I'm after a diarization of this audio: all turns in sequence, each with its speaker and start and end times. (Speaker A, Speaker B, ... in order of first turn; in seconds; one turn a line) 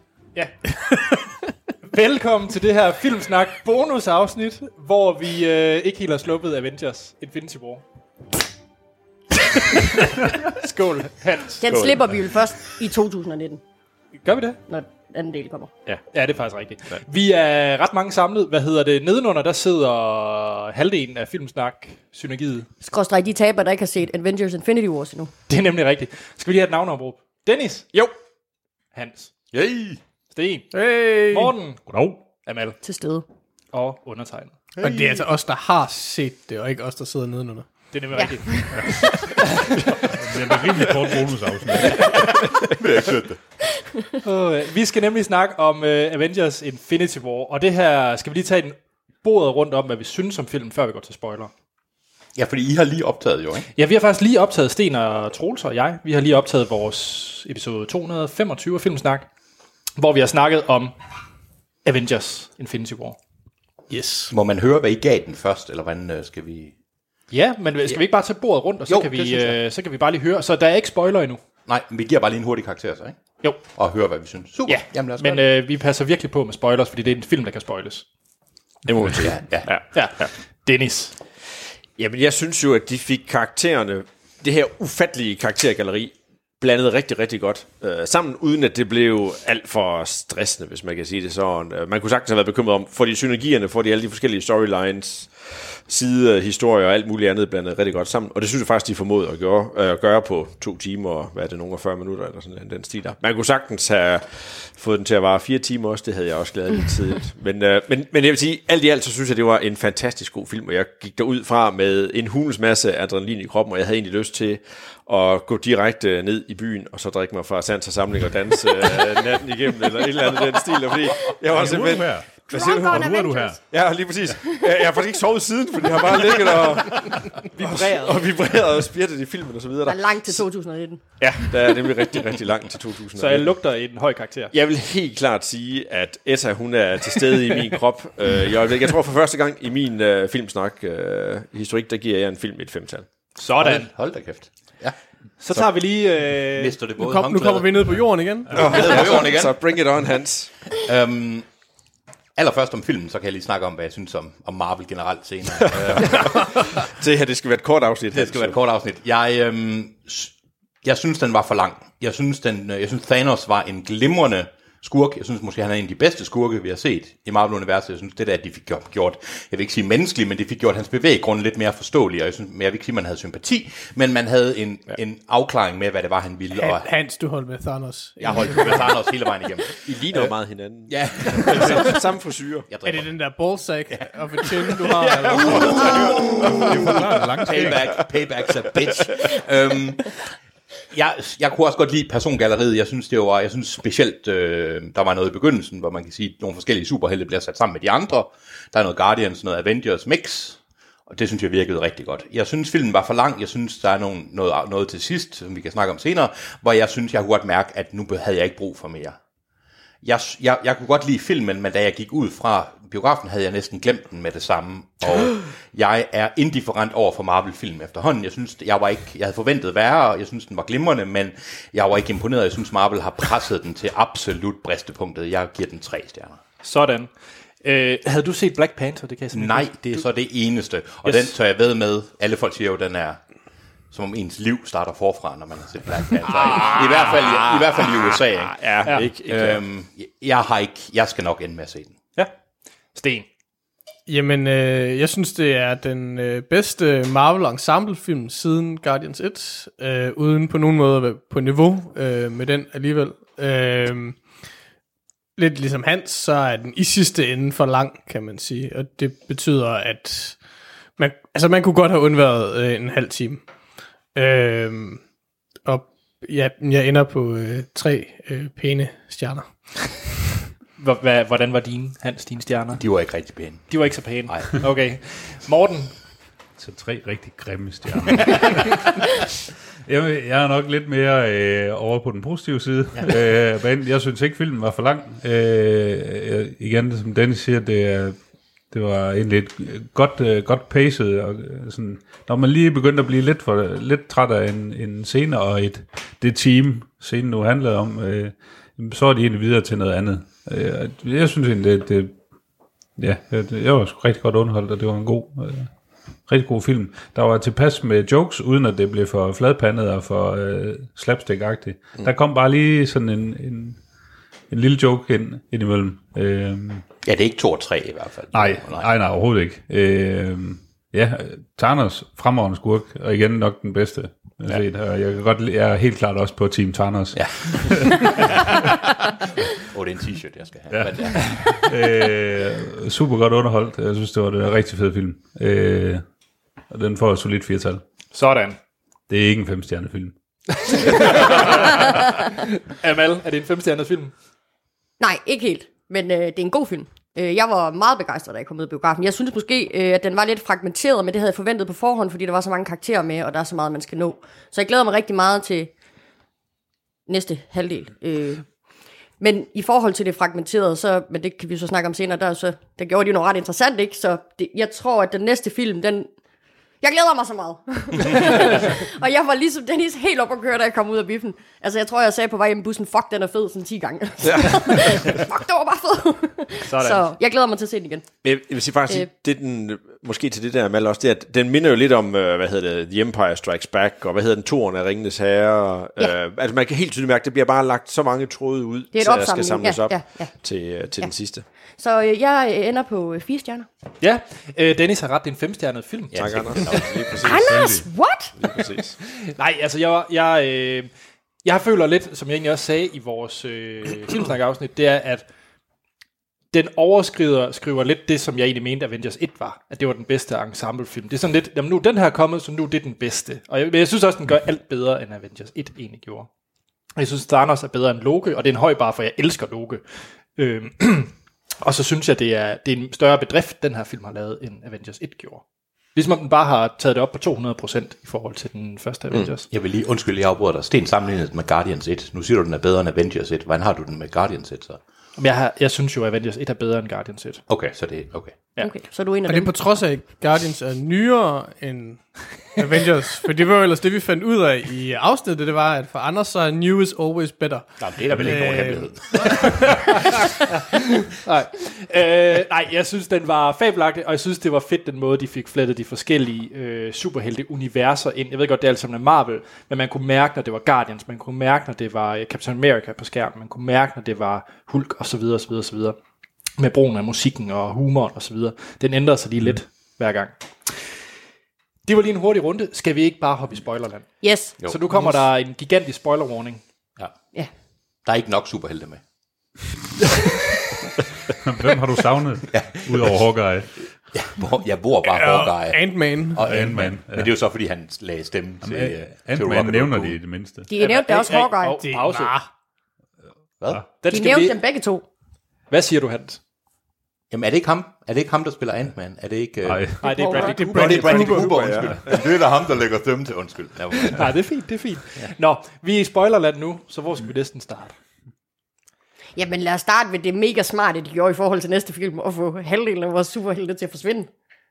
Speaker A: 0.3-0.6
Speaker B: 0.8-1.1
Speaker A: 1.9-7.8
Speaker A: 9.6-12.0
Speaker C: 11.6-13.6
Speaker A: 14.2-14.6
Speaker C: 14.7-15.7
Speaker A: 16.1-22.7
Speaker C: 22.8-25.3
Speaker A: 25.5-28.1
Speaker A: 28.9-29.3
Speaker D: 29.5-30.0
Speaker A: 30.3-32.8
Speaker B: 30.7-31.5
Speaker E: 31.9-32.3
Speaker C: 32.8-33.2
Speaker A: 33.7-34.6
Speaker D: 34.8-35.2
Speaker B: 34.8-37.7
Speaker A: 37.9-38.7
Speaker C: 38.1-39.2
Speaker E: 40.1-42.1
Speaker D: 41.9-43.4
Speaker A: 44.2-51.5
Speaker D: 52.3-53.7
Speaker A: 53.7-59.3
Speaker A: 60.0-60.9
Speaker A: 61.8-63.2
Speaker B: 63.9-64.3
Speaker D: 64.3-66.7
Speaker A: 67.3-71.4
Speaker D: 68.9-69.6
Speaker D: 71.7-75.4
Speaker A: 74.7-78.0
Speaker F: 78.9-80.2
Speaker D: 79.2-79.7
Speaker A: 79.9-81.1
Speaker F: 82.0-123.1
Speaker E: 121.5-123.6
Speaker C: 122.5-123.6
Speaker F: 123.7-130.4
Speaker A: 127.5-128.2
Speaker C: 129.8-131.0
Speaker F: 131.2-133.5
Speaker A: 133.2-134.5
Speaker F: 134.5-143.1
Speaker A: 143.4-143.9
Speaker D: 143.6-144.9
Speaker A: 145.4-146.8
Speaker D: 146.6-147.7
Speaker B: 147.0-148.6
Speaker D: 148.5-149.6
Speaker F: 148.5-150.5
Speaker D: 150.7-151.4
Speaker D: 152.3-156.6
Speaker F: 155.6-158.6
Speaker D: 158.1-176.9
Speaker B: 176.5-178.9
Speaker D: 178.2-180.3
Speaker F: 179.8-182.7
Speaker D: 180.9-182.0
Speaker D: 182.7-183.1
Speaker B: 182.8-185.9
Speaker F: 185.1-186.8
Speaker D: 185.4-190.3
Speaker E: 186.7-187.9
Speaker D: 190.9-200.6
Speaker D: 201.1-209.2
Speaker D: 210.0-226.4
Speaker A: 226.6-227.1
Speaker A: 227.6-230.0
Speaker D: 229.3-233.2
Speaker A: 231.0-231.3
Speaker D: 233.9-242.0
Speaker F: 236.5-239.6
Speaker A: 238.8-239.1
Speaker A: 242.9-243.3
Speaker B: 244.1-254.2
Speaker B: 255.4-260.4
Speaker B: 260.9-263.4
Speaker B: 264.1-265.0
Speaker B: 265.6-270.0
Speaker A: 270.8-272.8
Speaker D: 272.8-274.6
Speaker A: 273.7-275.9
Speaker E: 276.6-279.1
Speaker E: 279.9-288.2
Speaker E: 288.7-302.2
Speaker E: 303.0-305.7
Speaker E: 306.3-313.8
Speaker E: 314.5-316.9
Speaker D: 317.0-318.9
Speaker E: 318.3-328.6
Speaker D: 327.1-328.2
Speaker D: 329.6-331.7
Speaker E: 330.7-336.0
Speaker E: 336.7-337.8
Speaker A: 338.1-338.6
Speaker E: 339.1-340.1
Speaker A: 340.6-341.9
Speaker E: 340.6-341.3
Speaker A: 342.7-344.1
Speaker C: 345.0-355.7
Speaker C: 357.1-358.5
Speaker C: 359.2-366.1
Speaker C: 366.8-378.1
Speaker F: 374.2-375.0
Speaker A: 376.6-377.1
Speaker F: 378.2-391.4
Speaker C: 388.9-390.3
Speaker C: 391.8-393.7
Speaker A: 394.0-396.7
Speaker D: 396.1-397.1
Speaker F: 396.1-397.7
Speaker C: 397.1-398.4
Speaker E: 397.3-397.9
Speaker F: 398.4-399.0
Speaker A: 399.3-400.9
Speaker A: 401.4-405.2
Speaker A: 406.5-416.3
Speaker A: 416.9-419.8
Speaker A: 420.3-425.4
Speaker A: 425.9-429.5
Speaker D: 429.5-434.8
Speaker A: 435.2-437.4
Speaker D: 437.5-438.4
Speaker C: 438.6-439.5
Speaker B: 439.3-449.8
Speaker D: 447.8-449.9
Speaker A: 451.1-466.0
Speaker A: 466.6-470.8
Speaker A: 471.8-476.6
Speaker C: 474.2-474.6
Speaker D: 478.0-479.0
Speaker E: 481.4-483.7
Speaker D: 482.5-483.2
Speaker D: 484.1-490.2
Speaker B: 485.0-486.4
Speaker E: 486.4-487.3
Speaker E: 488.6-490.7
Speaker C: 490.7-491.8
Speaker A: 490.7-492.4
Speaker B: 491.8-492.5
Speaker A: 494.0-494.6
Speaker C: 494.1-495.0
Speaker A: 495.7-496.4
Speaker D: 497.3-500.0
Speaker E: 499.6-500.0
Speaker A: 500.0-502.2
Speaker C: 500.0-500.6
Speaker B: 500.3-501.5
Speaker D: 500.6-504.3
Speaker F: 501.4-501.9
Speaker A: 504.0-508.0
Speaker C: 509.4-514.3